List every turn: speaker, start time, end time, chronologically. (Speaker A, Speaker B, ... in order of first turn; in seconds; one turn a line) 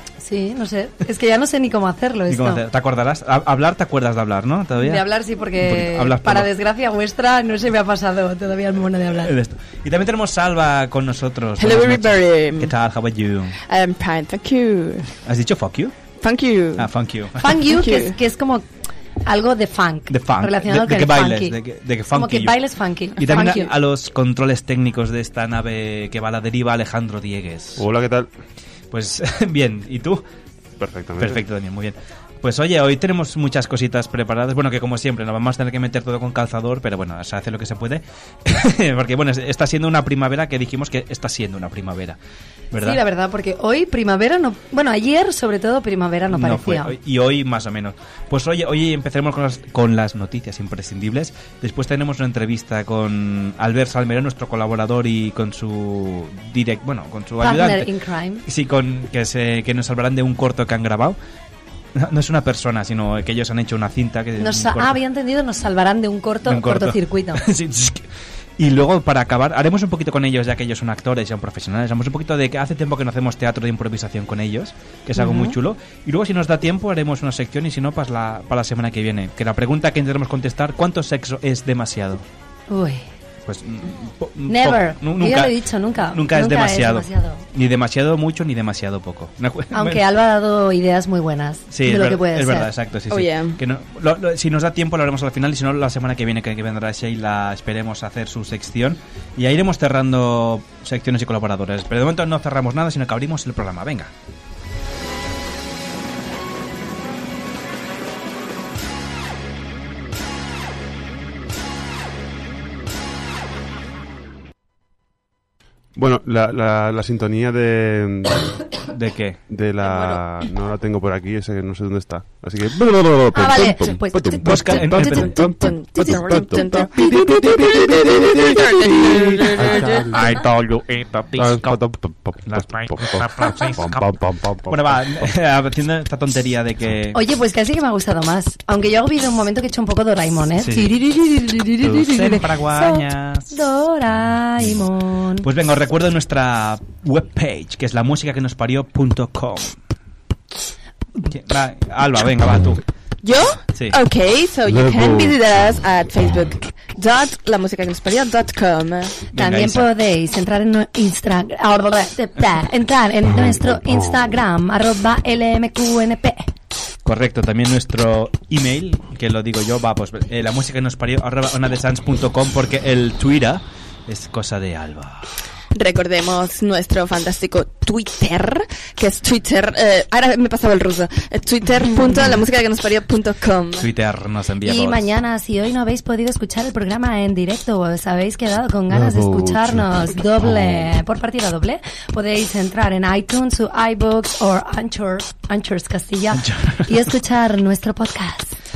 Speaker A: 0.2-2.6
Speaker B: 2.3-5.0
Speaker A: 4.8-9.3
Speaker B: 5.6-6.5
Speaker B: 9.2-13.6
Speaker C: 11.6-12.7
Speaker C: 13.7-15.1
Speaker B: 15.2-15.9
Speaker C: 16.2-16.9
Speaker B: 16.8-17.6
Speaker A: 17.4-18.6
Speaker C: 17.5-18.1
Speaker A: 19.2-21.5
Speaker B: 20.1-22.6
Speaker A: 22.1-23.7
Speaker B: 23.2-27.8
Speaker D: 27.8-28.3
Speaker B: 28.9-30.2
Speaker D: 30.8-31.4
Speaker B: 31.2-42.2
Speaker B: 42.7-43.0
Speaker A: 42.8-46.9
Speaker B: 46.3-57.9
Speaker A: 57.4-58.4
Speaker B: 58.5-61.2
Speaker B: 61.9-65.0
Speaker A: 64.4-67.4
Speaker B: 66.5-68.0
Speaker B: 68.6-82.2
Speaker A: 75.2-75.6
Speaker A: 82.7-83.0
Speaker B: 83.5-85.5
Speaker A: 84.5-87.4
Speaker B: 86.1-90.0
Speaker A: 89.7-92.7
Speaker B: 91.7-104.1
Speaker C: 93.1-93.6
Speaker D: 116.0-118.5
Speaker B: 118.9-119.4
Speaker D: 119.5-130.4
Speaker C: 119.8-120.3
Speaker A: 123.3-125.5
Speaker B: 124.4-125.5
Speaker C: 125.5-127.0
Speaker C: 128.8-130.1
Speaker E: 130.1-131.7
Speaker D: 131.3-135.3
Speaker B: 132.4-134.1
Speaker E: 132.6-133.5
Speaker B: 134.7-137.2
Speaker A: 137.1-145.5
Speaker B: 140.6-140.9
Speaker B: 141.8-143.6
Speaker B: 145.4-149.8
Speaker B: 151.3-152.8
Speaker C: 153.2-159.2
Speaker D: 154.7-155.4
Speaker B: 159.3-159.9
Speaker A: 159.3-166.4
Speaker D: 163.3-164.2
Speaker B: 167.0-175.2
Speaker C: 175.7-183.9
Speaker B: 183.8-185.1
Speaker A: 184.6-198.6
Speaker D: 188.9-190.9
Speaker B: 196.3-196.9